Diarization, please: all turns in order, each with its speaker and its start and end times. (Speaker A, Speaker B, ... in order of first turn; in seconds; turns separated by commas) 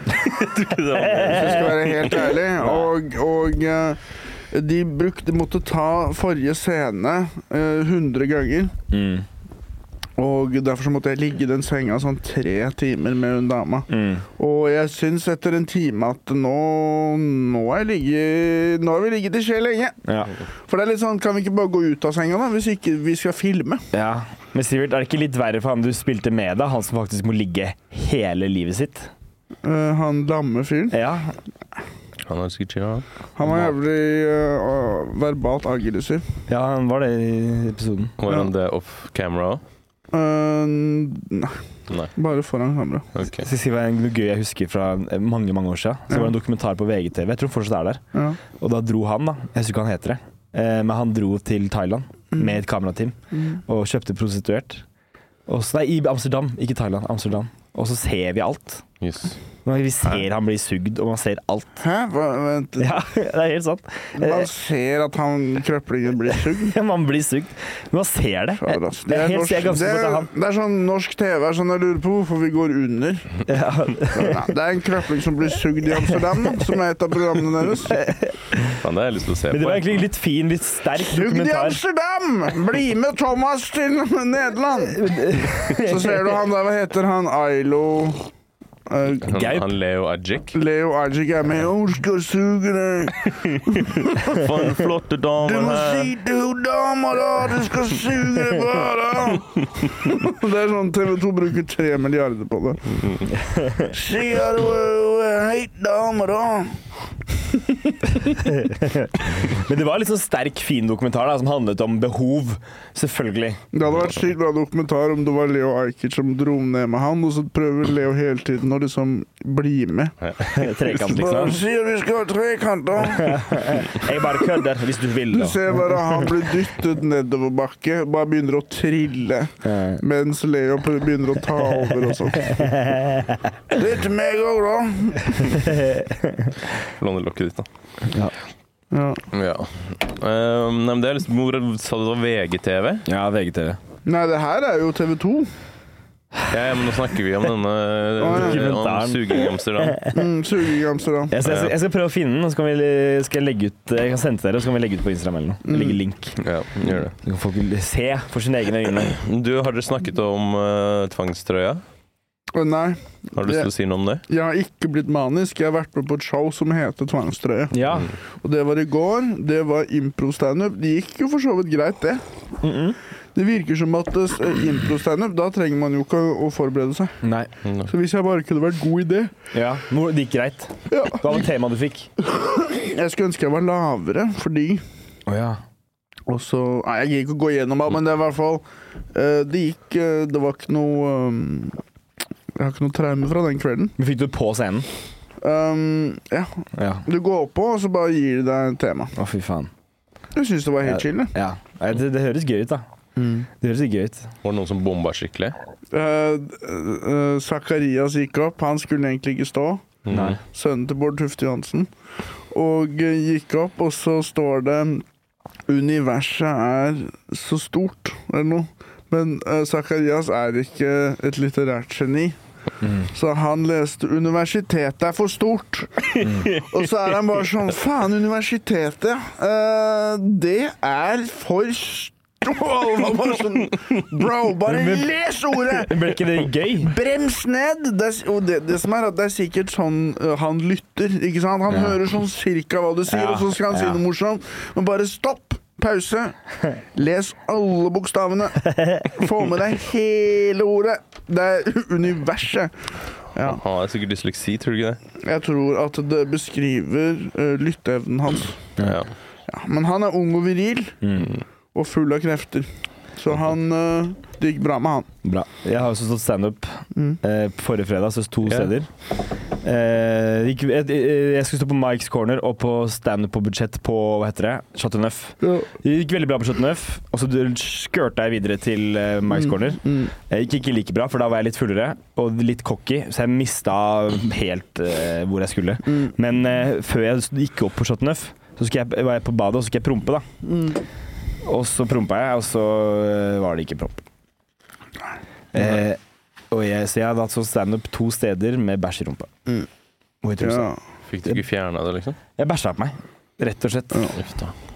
Speaker A: 0.2-2.4, Speaker B: 1.0-1.7, Speaker C: 1.1-8.7, Speaker B: 8.9-9.3, Speaker C: 10.2-20.0, Speaker B: 13.9-14.3, Speaker B: 20.1-20.4, Speaker C: 20.6-23.8, Speaker B: 23.9-29.1, Speaker C: 29.6-31.0, Speaker B: 30.9-31.4, Speaker A: 32.3-33.1, Speaker C: 33.4-36.2, Speaker B: 36.5-38.1, Speaker A: 38.2-39.6, Speaker C: 38.3-38.5, Speaker C: 40.1-41.6, Speaker C: 42.1-43.1, Speaker A: 43.1-43.5, Speaker B: 43.3-48.0, Speaker B: 48.6-54.9, Speaker B: 55.5-58.8, Speaker A: 59.0-59.4, Speaker B: 59.6-61.8, Speaker C: 61.8-63.0, Speaker B: 62.8-64.5, Speaker C: 64.2-66.7, Speaker B: 66.5-70.3, Speaker C: 68.6-73.4, Speaker B: 73.5-74.5, Speaker C: 74.1-78.1, Speaker B: 77.9-78.8, Speaker A: 78.8-79.9, Speaker B: 79.5-81.8, Speaker C: 81.0-85.0, Speaker B: 84.9-86.2, Speaker C: 85.7-88.3, Speaker C: 88.9-89.5, Speaker A: 89.2-90.6, Speaker B: 89.3-89.6, Speaker C: 90.5-94.6, Speaker A: 93.4-96.1, Speaker C: 95.4-102.8, Speaker A: 103.0-103.3, Speaker B: 103.3-103.9, Speaker C: 103.9-106.8, Speaker C: 107.4-108.4, Speaker B: 108.3-113.6, Speaker C: 113.7-120.1, Speaker A: 120.2-121.5, Speaker B: 120.4-121.6, Speaker C: 121.1-124.1, Speaker B: 123.2-126.3, Speaker C: 125.3-132.8, Speaker B: 129.6-130.0, Speaker B: 132.4-133.5, Speaker C: 133.7-135.8, Speaker B: 135.6-136.5, Speaker A: 136.9-137.7, Speaker B: 138.1-138.3, Speaker C: 138.9-139.2, Speaker A: 139.3-143.1, Speaker B: 143.1-143.8, Speaker C: 144.1-145.5, Speaker A: 146.5-150.1, Speaker C: 148.2-148.6, Speaker B: 148.2-150.2, Speaker C: 150.1-151.3, Speaker B: 151.3-159.2, Speaker A: 151.4-151.7, Speaker C: 155.7-156.0, Speaker A: 156.4-157.1, Speaker A: 159.1-161.8, Speaker C: 162.5-163.7, Speaker A: 163.4-164.2, Speaker C: 164.3-172.2, Speaker B: 167.7-168.1, Speaker B: 172.6-173.0, Speaker C: 173.3-177.2, Speaker B: 177.2-177.5, Speaker A: 177.6-177.9, Speaker C: 177.9-179.3, Speaker B: 179.5-182.1, Speaker C: 180.9-181.4, Speaker C: 182.3-184.8, Speaker B: 185.3-185.6, Speaker C: 186.3-191.8, Speaker C: 192.6-193.9, Speaker B: 194.0-194.9, Speaker C: 195.4-199.1, Speaker B: 196.8-197.1, Speaker B: 199.2-199.7, Speaker C: 200.3-201.3, Speaker B: 200.8-202.8, Speaker C: 203.2-203.5, Speaker B: 203.6-204.3, Speaker A: 204.4-205.6, Speaker C: 205.9-209.9, Speaker A: 210.1-210.4, Speaker B: 210.1-210.4, Speaker C: 210.4-211.9, Speaker C: 212.5-215.1, Speaker C: 215.7-222.4, Speaker B: 222.8-223.1, Speaker C: 223.1-236.2, Speaker A: 226.2-226.8, Speaker B: 226.2-226.5, Speaker B: 234.7-236.9, Speaker C: 236.8-253.6, Speaker B: 241.7-242.0, Speaker B: 243.1-244.0, Speaker B: 248.7-249.1, Speaker A: 253.4-255.0, Speaker C: 255.2-258.7, Speaker A: 258.8-259.1, Speaker C: 259.5-261.0, Speaker B: 261.0-261.3, Speaker C: 261.7-265.1, Speaker B: 265.2-268.9, Speaker B: 269.6-290.3, Speaker C: 279.3-280.1, Speaker C: 290.4-290.8, Speaker B: 291.4-294.0, Speaker B: 295.5-296.0, Speaker B: 296.5-299.3, Speaker B: 300.2-300.7, Speaker C: 300.4-300.8, Speaker A: 301.1-302.2, Speaker B: 302.4-304.2, Speaker A: 304.2-304.5